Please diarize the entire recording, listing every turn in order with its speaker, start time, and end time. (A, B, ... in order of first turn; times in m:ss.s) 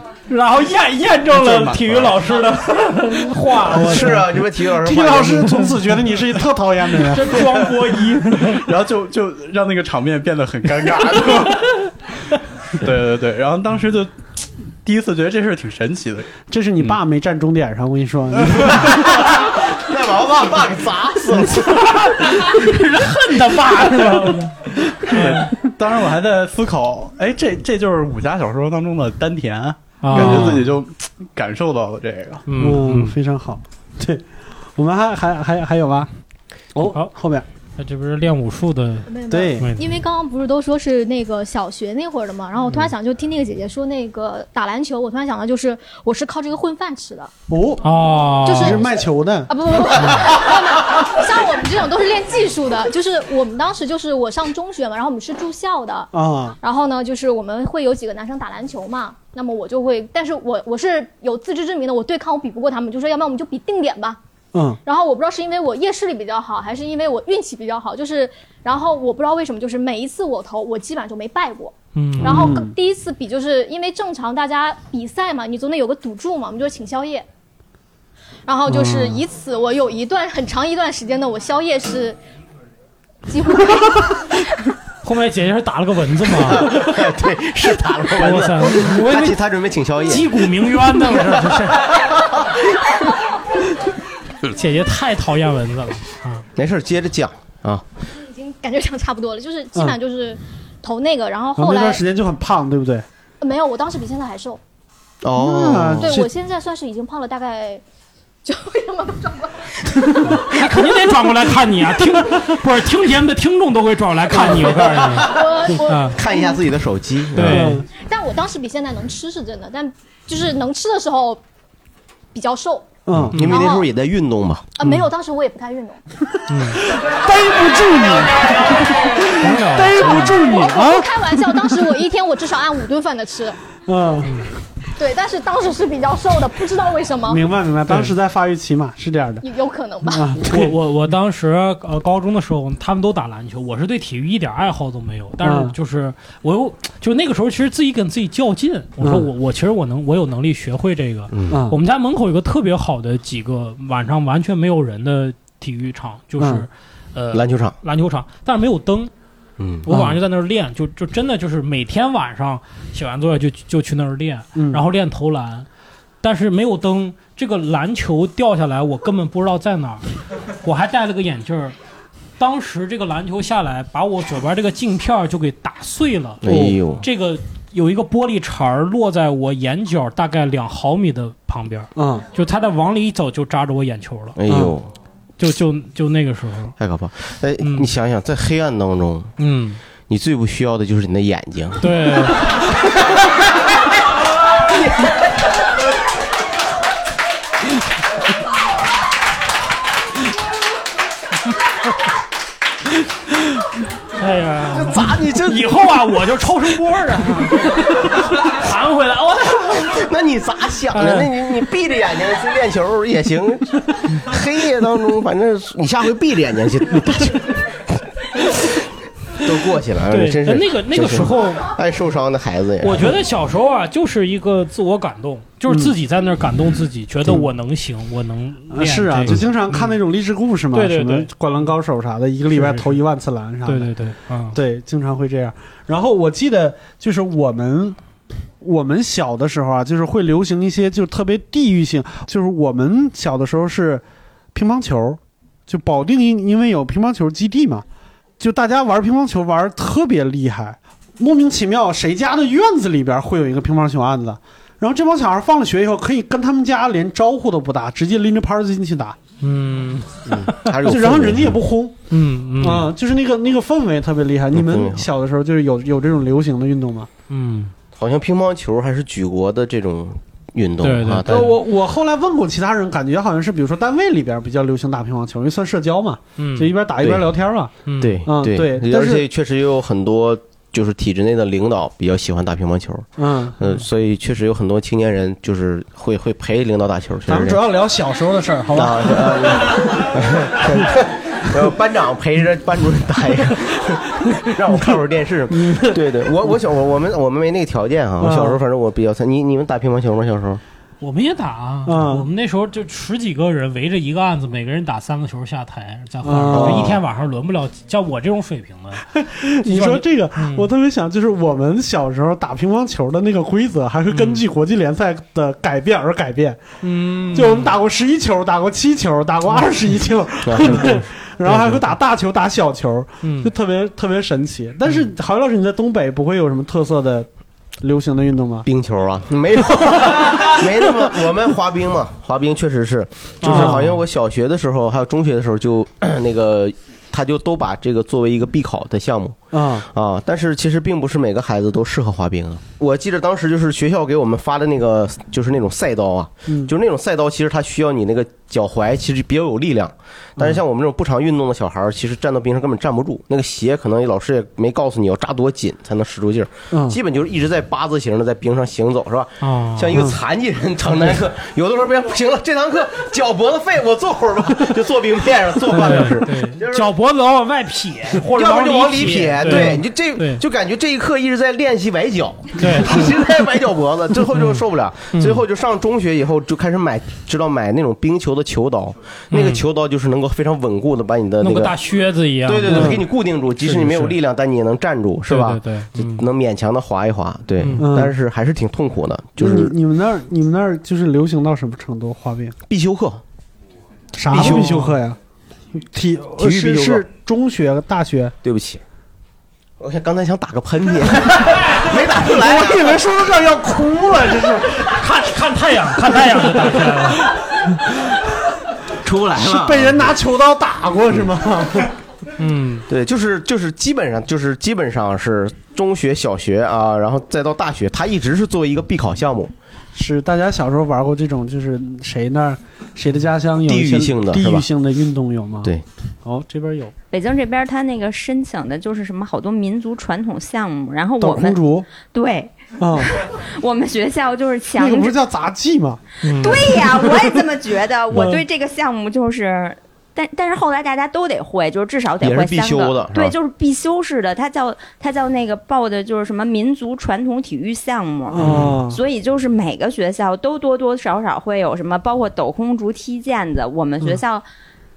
0:00.3-0:04.3 A
0:01.3-0:02.2 B
0:03.6-0:07.4 C
0:03.7-0:05.7 D
0:07.1-0:08.6 A
0:08.5-0:11.8 B
0:12.8-0:16.4 B
0:16.5-0:19.2 C
0:18.8-0:21.8 D
0:21.5-0:25.5 A
0:25.1-0:32.4 B
0:30.0-0:30.7 A
0:30.1-0:30.7 C
0:32.4-0:33.1 A
0:32.6-0:36.1 C
0:36.8-0:37.4 C
0:37.8-0:39.8 A
0:39.1-0:47.3 E
0:39.3-0:39.7 C
0:47.5-0:47.8 C
0:47.8-0:48.8 A
0:48.4-0:56.1 E
0:48.5-0:49.5 C
0:56.1-0:56.6 C
0:56.6-1:04.2 E
1:04.8-1:17.3 E
1:11.9-1:12.5 A
1:12.2-1:12.8 C
1:18.5-1:22.2 E
1:18.7-1:19.2 C
1:23.3-1:24.4 E
1:25.0-1:26.9 A
1:26.4-1:30.4 D
1:28.2-1:29.4 A
1:30.0-1:31.9 A
1:34.5-1:36.4 A
1:36.6-1:37.9 D
1:38.1-1:42.0 E
1:41.6-1:43.1 C
1:43.4-1:44.6 E
1:45.2-1:46.2 D
1:45.4-1:46.3 C
1:46.0-1:47.8 E
1:48.4-1:50.5 E
1:50.4-1:56.2 A
1:54.8-1:56.6 E
1:56.1-1:57.7 D
1:57.4-1:57.8 A
1:57.4-1:57.9 C
1:57.9-2:01.4 E
2:02.3-2:03.9 E
2:03.1-2:03.4 C
2:03.3-2:04.7 D
2:04.8-2:06.0 E
2:06.5-2:06.8 A
2:07.1-2:12.0 C
2:09.4-2:10.4 A
2:10.0-2:13.6 E
2:13.9-2:14.4 C
2:14.2-2:14.5 A
2:15.0-2:17.4 E
2:17.3-2:19.4 C
2:17.9-2:18.1 A
2:19.4-2:20.3 E
2:20.0-2:20.7 C
2:20.4-2:39.1 A
2:25.4-2:25.7 C
2:29.0-2:29.3 C
2:31.3-2:31.6 D
2:31.5-2:31.8 C
2:36.4-2:36.7 C
2:37.3-2:37.8 D
2:39.6-2:39.9 D
2:39.8-2:45.7 A
2:39.9-2:40.2 C
2:44.6-2:44.8 C
2:46.2-2:50.0 A
2:50.6-2:51.8 A
2:52.4-3:04.4 A
2:56.4-2:57.0 D
2:56.4-2:56.8 C
3:02.0-3:02.2 C
3:04.4-3:04.9 D
3:04.5-3:04.8 C
3:05.4-3:06.8 A
3:06.8-3:09.3 D
3:07.6-3:07.9 A
3:09.4-3:09.8 A
3:10.1-3:11.9 D
3:11.8-3:12.4 A
3:14.6-3:15.1 D
3:24.2-3:30.0 A
3:24.7-3:25.7 D
3:29.7-3:37.8 D
3:30.9-3:31.3 A
3:39.4-3:43.1 D
3:40.1-3:41.7 A
3:42.8-3:50.0 A
3:45.7-3:45.9 C
3:48.7-3:53.9 C
3:50.7-3:51.3 A
3:52.5-3:53.0 A
3:53.6-3:54.6 A
3:54.5-3:58.0 C
3:58.6-4:04.0 C
4:04.5-4:07.8 C
4:08.4-4:19.2 C
4:19.4-4:20.7 A
4:20.3-4:21.6 D
4:20.8-4:22.0 C
4:22.1-4:22.9 A
4:22.6-4:27.1 C
4:24.5-4:25.1 D
4:27.3-4:27.7 A
4:28.0-4:31.6 D
4:30.8-4:31.4 A
4:31.3-4:37.7 C
4:36.4-4:36.7 A
4:37.0-4:37.3 D
4:37.9-4:38.2 A
4:38.0-4:47.6 D
4:38.2-4:39.2 C
4:43.2-4:43.6 C
4:47.3-4:50.0 C
4:48.7-5:00.6 D
4:55.5-4:56.0 C
4:58.2-4:58.6 C
5:01.0-5:10.6 A
5:01.9-5:02.3 C
5:06.2-5:07.0 C
5:06.5-5:07.0 D
5:09.2-5:16.6 C
5:14.1-5:14.4 A
5:16.8-5:17.7 A
5:17.3-5:27.3 C
5:20.4-5:21.6 D
5:20.7-5:21.0 A
5:23.2-5:23.5 A
5:27.8-5:28.7 C
5:28.6-6:06.9 D
5:29.8-5:30.4 C
5:33.4-5:34.0 A
5:33.4-5:33.9 C
5:39.5-5:39.9 C
5:56.7-5:57.0 C
5:59.4-6:00.0 A
6:05.7-6:10.4 A
6:08.2-6:21.8 D
6:09.4-6:09.8 C
6:12.6-6:13.1 A
6:14.4-6:14.6 A
6:15.1-6:15.4 A
6:19.3-6:19.6 A
6:21.4-6:23.0 A
6:22.4-6:29.8 D
6:22.7-6:23.0 C
6:23.6-6:24.2 A
6:25.3-6:26.3 A
6:27.6-6:27.8 A
6:27.8-6:28.1 C
6:29.4-6:32.6 C
6:32.7-6:33.2 D
6:34.2-6:35.2 C
6:34.3-6:34.8 D
6:34.3-6:35.0 A
6:35.8-6:38.4 C
6:36.4-6:37.1 D
6:38.4-6:38.8 D
6:39.8-6:43.0 D
6:42.1-6:44.9 C
6:44.9-6:47.2 A
6:49.0-6:50.1 D
6:49.4-6:51.9 C
6:52.4-6:52.8 A
6:52.9-6:59.5 D
6:59.9-7:05.7 C
7:03.6-7:04.7 D
7:06.2-7:06.9 C
7:07.1-7:15.2 F
7:11.2-7:11.9 C
7:12.8-7:13.1 C
7:14.8-7:17.3 C
7:16.2-7:16.6 A
7:16.4-7:34.4 F
7:18.1-7:18.4 C
7:22.2-7:23.3 D
7:28.3-7:29.0 C
7:28.4-7:28.8 D